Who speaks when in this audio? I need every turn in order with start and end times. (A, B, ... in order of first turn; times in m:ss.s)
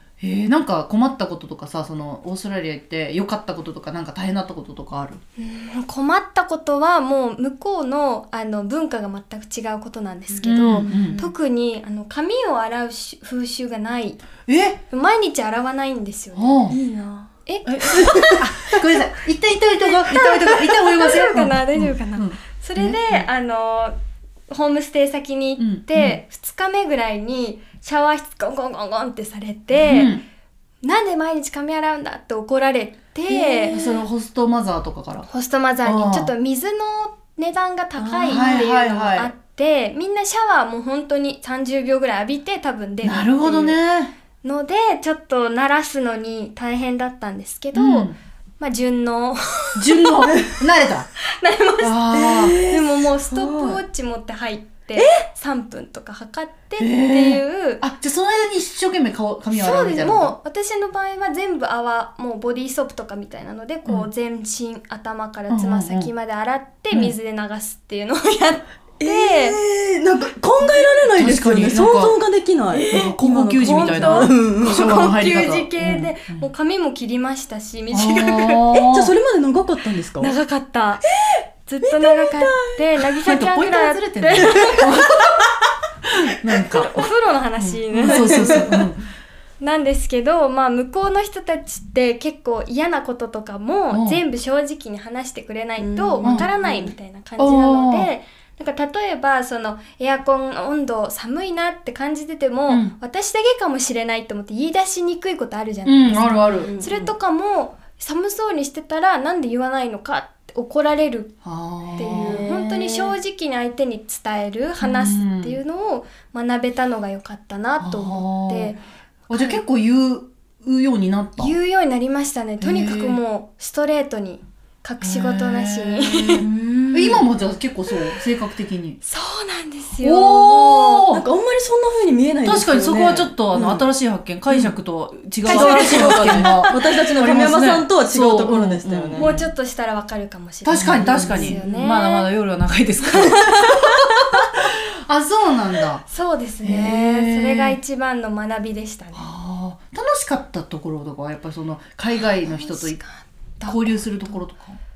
0:00.2-0:05.2 A
0:05.4-0:14.2 B
0:10.4-0:11.3 C
0:10.4-0:11.2 A
0:14.5-0:14.8 A
0:14.9-0:16.6 B
0:16.3-0:16.8 A
0:16.7-0:17.3 C
0:17.4-0:18.5 B
0:17.6-0:23.3 A
0:18.0-0:18.8 C
0:20.1-0:23.9 B
0:24.5-0:30.1 B
0:25.6-0:26.2 A
0:29.8-0:30.2 A
0:30.8-0:33.8 B
0:33.3-0:34.0 C
0:33.7-0:35.3 A
0:35.3-0:43.8 B
0:35.8-0:36.3 A
0:38.0-0:38.6 C
0:38.3-0:39.3 A
0:43.0-0:44.1 A
0:44.4-0:50.2 B
0:47.8-0:48.2 A
0:49.8-0:51.1 A
0:51.3-0:57.8 B
0:51.8-0:52.6 A
0:52.1-0:53.8 C
0:55.0-0:55.2 C
0:56.8-1:00.4 A
0:59.5-1:09.6 B
1:05.5-1:06.1 A
1:09.0-1:15.0 C
1:11.1-1:12.2 A
1:12.7-1:13.1 B
1:12.9-1:16.5 A
1:13.7-1:18.7 B
1:17.9-1:19.1 A
1:18.7-1:20.3 C
1:20.2-1:21.1 B
1:21.1-1:23.1 C
1:21.7-1:24.8 B
1:23.2-1:25.5 A
1:24.5-1:25.5 C
1:26.0-1:27.1 A
1:26.7-1:28.9 B
1:27.6-1:29.0 A
1:28.0-1:28.9 C
1:29.6-1:51.4 B
1:33.9-1:34.2 A
1:35.8-1:36.9 C
1:37.4-1:38.1 A
1:42.7-1:42.9 A
1:45.8-1:46.7 A
1:46.5-1:47.1 C
1:51.4-1:53.1 A
1:52.0-1:58.8 B
1:52.0-1:52.5 C
1:54.8-1:55.6 A
1:57.8-1:58.8 A
1:59.3-2:01.5 A
1:59.3-1:59.6 B
2:01.4-2:06.5 B
2:02.6-2:03.2 A
2:05.0-2:09.0 A
2:06.3-2:07.3 C
2:09.0-2:11.1 B
2:10.0-2:11.2 A
2:11.1-2:13.9 C
2:12.4-2:19.5 A
2:15.4-2:16.8 B
2:15.4-2:19.3 C
2:19.2-2:22.3 B
2:20.6-2:26.0 A
2:20.8-2:21.6 C
2:23.1-2:24.0 B
2:26.1-2:29.2 B
2:26.6-2:27.8 A
2:29.2-2:33.0 A
2:32.2-2:33.8 B
2:33.7-2:34.8 A